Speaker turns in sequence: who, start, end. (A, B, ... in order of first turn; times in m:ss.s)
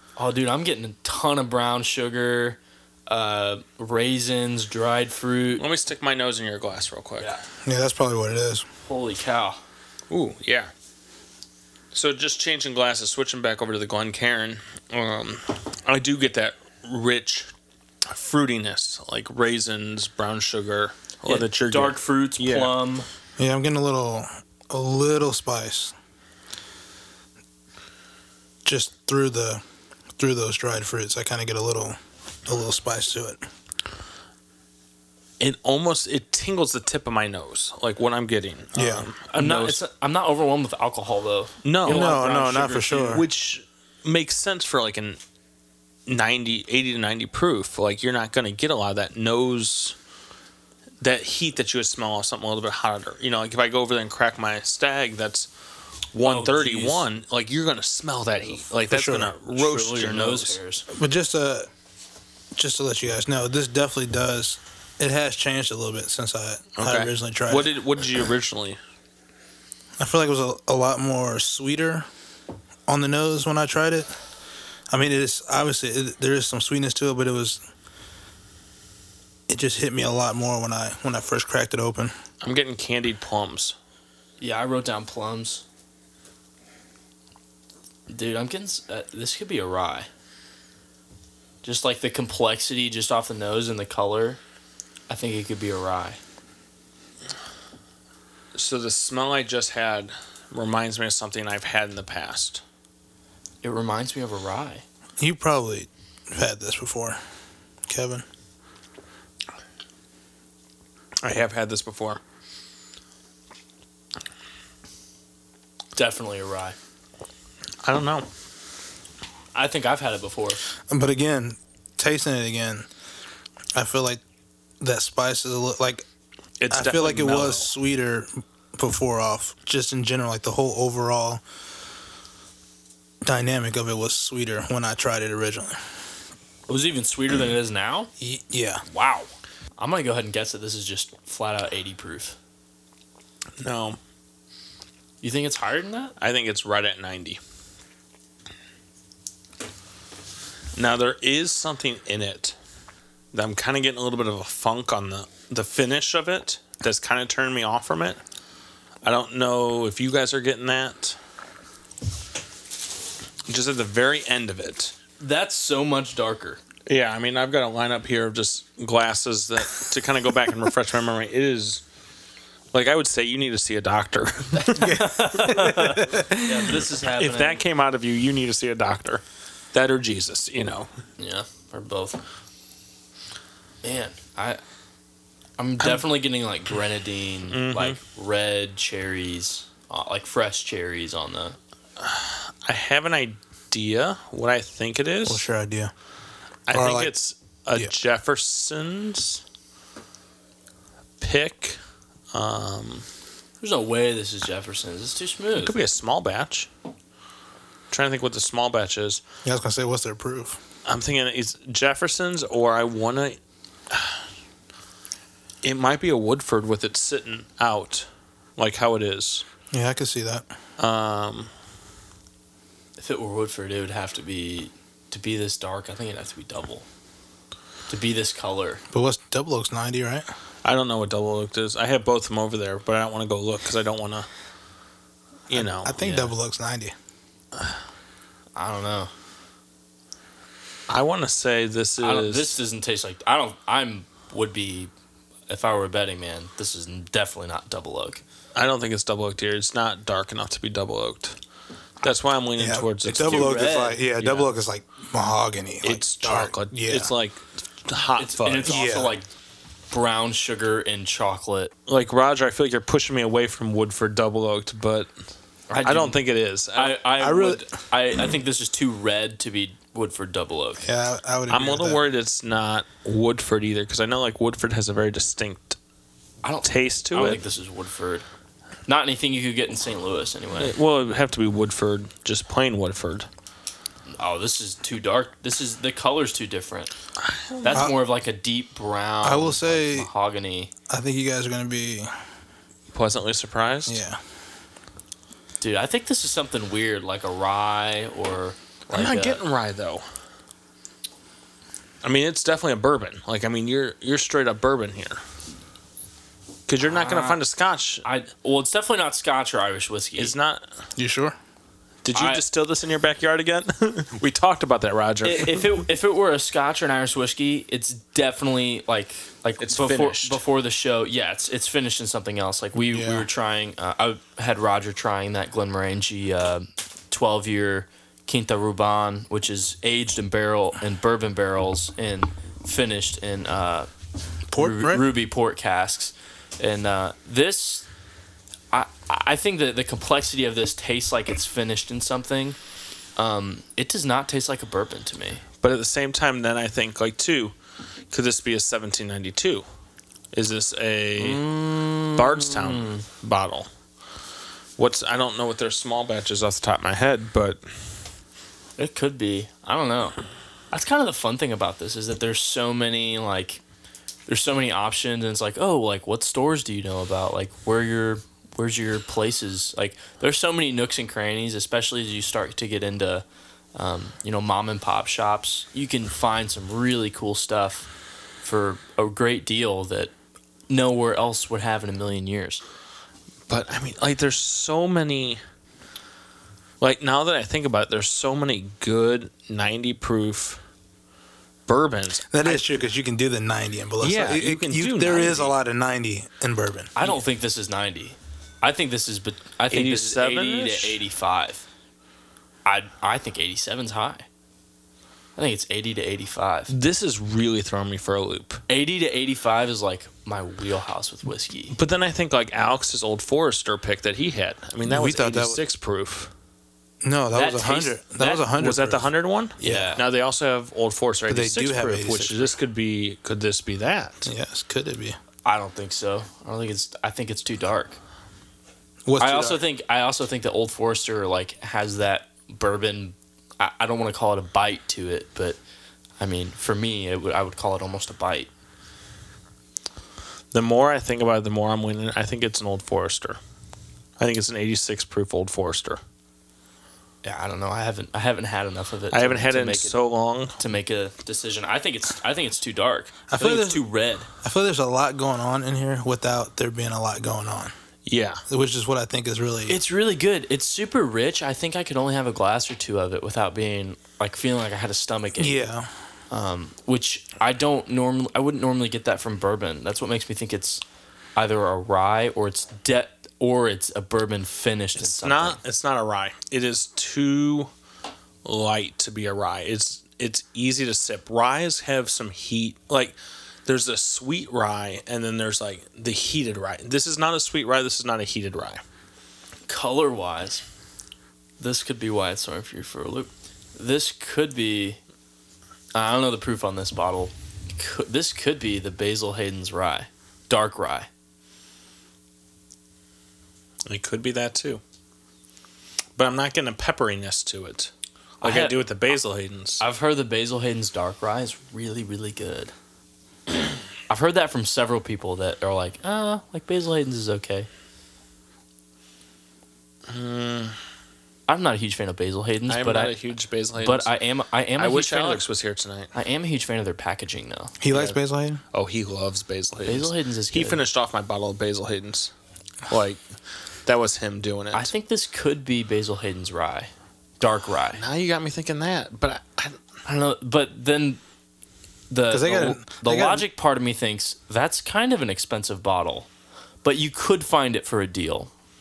0:00.2-0:05.6 A
0:05.5-0:07.3 B
0:07.6-0:08.6 C
0:08.8-0:09.6 A
0:10.1-0:10.7 B
0:11.9-0:17.5 B
0:18.1-0:22.7 B
0:21.2-0:23.1 A
0:23.4-0:25.9 C
0:28.6-0:29.6 C
0:30.2-0:33.4 C
0:35.4-0:39.8 B
0:38.7-0:39.1 C
0:39.3-0:43.2 A
0:41.6-0:42.2 B
0:41.8-0:43.3 C
0:42.9-0:45.2 B
0:46.1-0:50.0 B
0:51.0-0:55.5 B
0:56.1-1:00.6 B
0:56.2-0:57.0 A
0:58.9-0:59.3 C
0:59.5-1:00.8 A
1:00.9-1:01.7 C
1:02.5-1:07.7 C
1:06.8-1:08.8 B
1:10.0-1:12.0 C
1:12.9-1:14.1 C
1:14.9-1:17.6 C
1:19.5-1:22.1 C
1:22.4-1:23.8 B
1:24.4-1:25.6 A
1:28.1-1:30.1 A
1:31.6-1:34.4 A
1:35.1-1:36.2 A
1:38.5-1:42.6 B
1:43.6-1:44.8 A
1:45.2-1:47.2 C
1:47.9-1:48.2 C
1:51.2-1:52.2 B
1:56.0-1:56.8 A
1:57.8-1:58.3 B
1:59.5-2:00.6 A
2:00.9-2:02.9 C
2:03.7-2:04.2 C
2:04.8-2:06.0 C
2:06.6-2:07.7 B
2:06.7-2:11.4 C
2:13.2-2:15.8 C
2:16.7-2:18.1 A
2:18.2-2:18.8 C
2:18.9-2:22.4 A
2:23.6-2:24.0 B
2:25.2-2:26.1 A
2:26.2-2:27.4 B
2:30.8-2:32.6 B
2:33.3-2:38.2 B
2:39.0-2:41.2 B
2:43.5-2:44.9 B
2:45.2-2:46.6 A
2:46.8-2:51.8 B
2:52.7-2:55.1 B
2:54.6-2:57.6 A
2:54.8-2:56.8 C
2:57.1-3:00.9 B
3:01.2-3:02.2 A
3:03.8-3:04.6 A
3:05.6-3:11.6 A
3:07.5-3:08.0 B
3:12.0-3:15.4 B
3:15.2-3:15.9 C
3:16.7-3:19.4 B
3:16.7-3:17.1 C
3:21.2-3:21.8 B
3:22.3-3:23.0 B
3:23.6-3:25.8 A
3:25.6-3:26.7 B
3:27.9-3:29.2 B
3:29.4-3:30.6 C
3:30.8-3:33.4 B
3:33.9-3:34.2 B
3:35.6-3:39.4 B
3:39.7-3:40.5 C
3:40.8-3:41.5 B
3:43.0-3:46.8 A
3:47.9-3:48.8 A
3:48.9-3:50.3 C
3:50.6-3:54.3 B
3:55.5-3:56.0 B
3:55.5-3:56.9 C
3:56.0-3:56.3 A
3:58.6-3:59.1 A
4:00.9-4:02.6 B
4:02.0-4:04.9 A
4:05.5-4:08.2 A
4:08.5-4:11.4 B
4:12.0-4:13.7 B
4:12.6-4:17.1 C
4:13.1-4:14.5 A
4:15.8-4:18.8 B
4:18.2-4:19.3 A
4:18.7-4:19.1 C
4:19.9-4:21.7 A
4:21.9-4:25.1 B
4:25.7-4:26.2 A
4:25.8-4:27.0 B
4:26.7-4:30.8 A
4:27.2-4:27.6 C
4:30.8-4:32.0 C
4:31.5-4:35.8 B
4:36.4-4:38.2 A
4:36.6-4:37.4 B
4:38.9-4:40.7 A
4:40.6-4:43.3 B
4:44.1-4:46.9 A
4:47.2-4:47.9 B
4:47.6-4:50.7 A
4:49.2-4:50.1 C
4:50.9-4:52.1 C
4:52.9-4:54.0 B
4:53.8-4:54.2 C
4:55.6-4:59.4 A
4:58.9-5:00.0 B
5:02.0-5:05.2 B
5:06.7-5:08.0 B
5:06.8-5:07.4 A
5:08.0-5:10.3 A
5:10.2-5:10.7 B
5:11.0-5:11.4 C
5:12.0-5:15.7 B
5:12.1-5:12.4 A
5:15.2-5:33.9 A
5:19.6-5:20.4 B
5:22.8-5:23.3 C
5:34.5-5:35.1 C
5:34.5-5:37.9 A
5:38.7-5:42.6 A
5:43.2-5:45.4 A
5:45.6-5:47.5 B
5:48.1-5:49.6 B
5:50.3-5:51.4 B
5:51.2-5:53.0 A
5:52.1-5:53.7 B
5:54.8-5:57.6 B
5:58.8-6:00.2 A
6:00.7-6:03.6 A
6:04.3-6:13.2 A
6:13.7-6:17.9 A
6:18.4-6:20.1 A
6:20.7-6:22.6 A
6:23.5-6:25.4 B
6:26.8-6:30.6 B
6:31.7-6:32.8 B
6:32.3-6:36.9 C
6:34.0-6:35.6 B
6:37.0-6:41.6 A
6:39.7-6:41.0 B
6:42.6-6:44.2 A
6:45.4-6:46.7 A
6:46.7-6:48.6 B
6:48.7-6:51.8 A
6:51.7-6:56.3 B
6:54.8-6:55.6 C
6:57.0-6:59.0 C
6:57.3-6:58.4 A
6:58.5-7:04.3 B
6:59.6-7:00.0 C
6:59.6-7:00.0 A
7:01.3-7:02.5 C
7:04.2-7:05.2 C
7:05.4-7:08.0 A
7:09.0-7:09.6 C
7:09.2-7:15.6 A
7:16.2-7:18.5 A
7:20.5-7:23.4 B
7:24.2-7:26.0 B
7:27.2-7:30.0 A
7:29.1-7:30.6 B
7:30.6-7:34.3 A
7:33.3-7:33.8 C
7:34.4-7:37.7 C
7:38.0-7:38.4 B
7:38.5-7:39.8 C
7:39.7-7:45.7 A
7:45.4-7:45.9 C
7:46.3-7:50.8 A
7:51.4-7:55.6 A
7:55.0-7:57.7 B
7:58.4-8:08.8 B
8:09.7-8:10.6 A
8:11.6-8:15.0 A
8:15.9-8:21.1 A
8:23.9-8:24.8 B
8:26.2-8:29.8 B
8:28.4-8:28.8 A
8:29.8-8:32.7 A
8:34.1-8:37.7 A
8:40.1-8:40.8 B
8:41.5-8:43.1 A
8:42.7-8:44.1 B
8:43.8-8:45.4 A
8:44.8-8:46.1 B
8:46.1-8:47.8 A
8:47.8-8:48.6 C
8:47.9-8:48.2 B
8:48.7-8:52.3 B
8:49.8-8:50.8 A
8:52.9-8:53.2 B
8:53.8-8:54.9 B
8:54.7-8:58.0 A
8:57.9-8:59.8 B
9:00.0-9:01.2 A
9:02.1-9:06.3 A
9:02.3-9:03.4 C
9:06.8-9:08.5 A